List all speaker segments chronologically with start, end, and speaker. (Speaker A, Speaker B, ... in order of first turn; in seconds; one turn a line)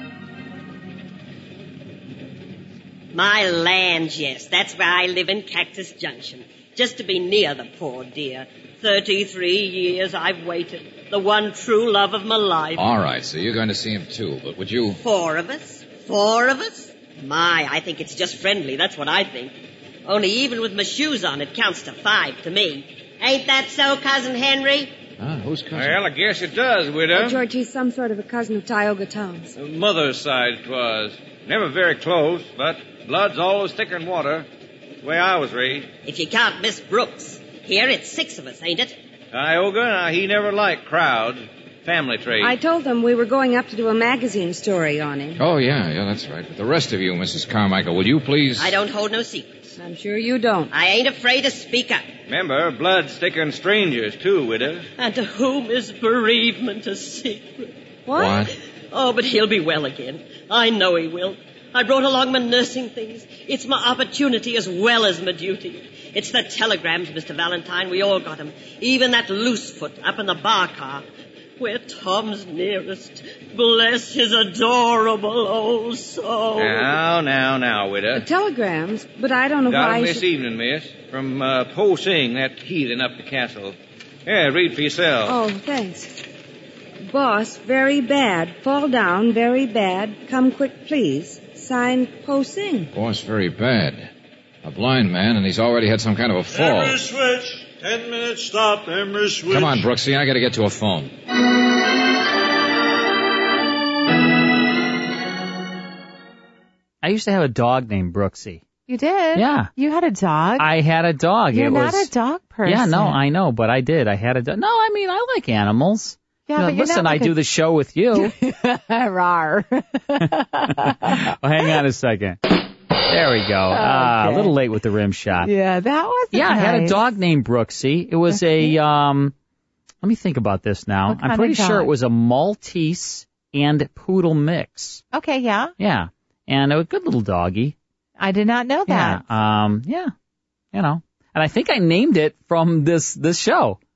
Speaker A: 3.1-12.8
Speaker B: 12.8-15.0
Speaker A: 15.0-19.5
Speaker A: 20.1-24.9
Speaker B: 25.2-26.0
Speaker C: 25.7-27.4
Speaker D: 27.1-29.5
Speaker C: 29.5-34.5
Speaker C: 35.0-35.9
Speaker A: 36.0-39.0
Speaker C: 39.3-42.6
Speaker D: 42.4-45.4
Speaker B: 45.4-48.8
Speaker A: 48.6-49.7
Speaker D: 49.8-50.7
Speaker A: 50.7-52.1
Speaker C: 52.3-54.9
Speaker A: 55.0-57.7
Speaker D: 58.1-58.4
Speaker B: 58.1-58.5
Speaker A: 58.4-71.0
Speaker A: 71.6-76.8
Speaker C: 76.6-78.2
Speaker D: 78.1-80.2
Speaker C: 79.6-85.4
Speaker D: 85.2-86.2
Speaker D: 87.0-92.9
Speaker B: 92.9-94.1
Speaker B: 94.6-97.0
Speaker E: 96.5-99.8
Speaker B: 99.5-101.1
Speaker F: 107.0-108.6
Speaker G: 108.9-110.7
Speaker F: 109.3-109.7
Speaker F: 110.6-112.1
Speaker G: 111.5-113.2
Speaker F: 112.6-118.3
Speaker G: 116.5-117.3
Speaker G: 118.1-121.2
Speaker F: 120.8-122.4
Speaker F: 123.1-125.5
Speaker G: 123.7-124.5
Speaker G: 125.4-127.0
Speaker F: 126.3-129.3
Speaker G: 128.3-128.8
Speaker F: 130.0-135.0
Speaker G: 131.1-131.9
Speaker G: 135.1-135.7
Speaker F: 135.8-137.8
Speaker G: 138.2-139.2
Speaker F: 138.9-140.1
Speaker F: 140.7-143.8